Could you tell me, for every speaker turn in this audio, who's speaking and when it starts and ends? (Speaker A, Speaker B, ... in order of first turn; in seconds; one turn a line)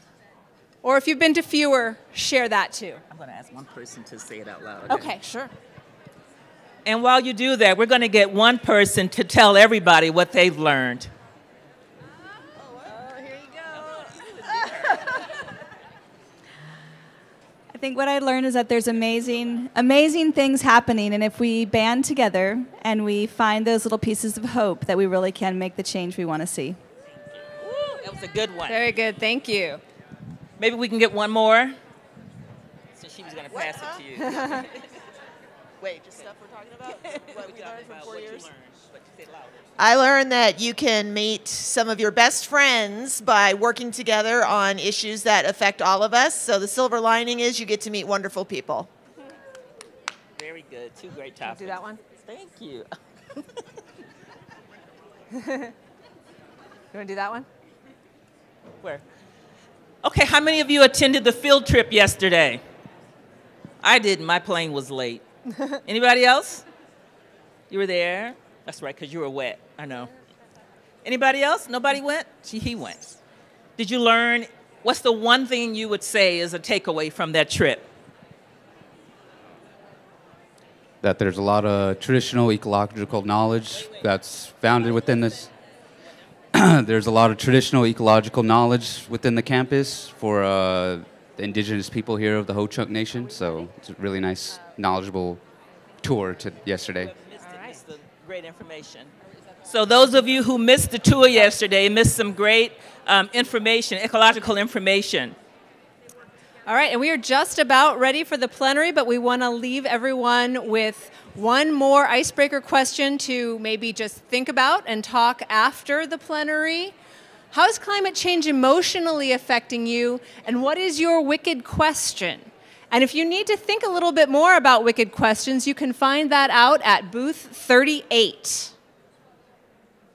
Speaker A: 0.8-3.0
Speaker B: 3.1-5.2
Speaker A: 4.9-5.5
Speaker B: 6.8-11.1
Speaker B: 13.6-15.1
Speaker C: 17.7-26.8
Speaker B: 27.6-28.9
Speaker A: 28.7-29.8
Speaker B: 30.6-31.8
Speaker B: 33.0-34.8
Speaker B: 35.8-39.7
Speaker D: 39.8-48.9
Speaker B: 50.4-52.9
Speaker A: 51.4-52.0
Speaker A: 55.3-55.7
Speaker A: 56.9-57.5
Speaker B: 60.0-62.6
Speaker B: 63.8-65.2
Speaker B: 65.9-66.7
Speaker B: 67.7-70.1
Speaker B: 71.0-73.2
Speaker B: 73.8-77.9
Speaker E: 81.0-85.5
Speaker E: 86.6-95.5
Speaker E: 96.0-97.1
Speaker B: 97.0-99.1
Speaker A: 97.4-97.8
Speaker B: 99.6-105.4
Speaker A: 106.7-116.9
Speaker A: 117.5-128.7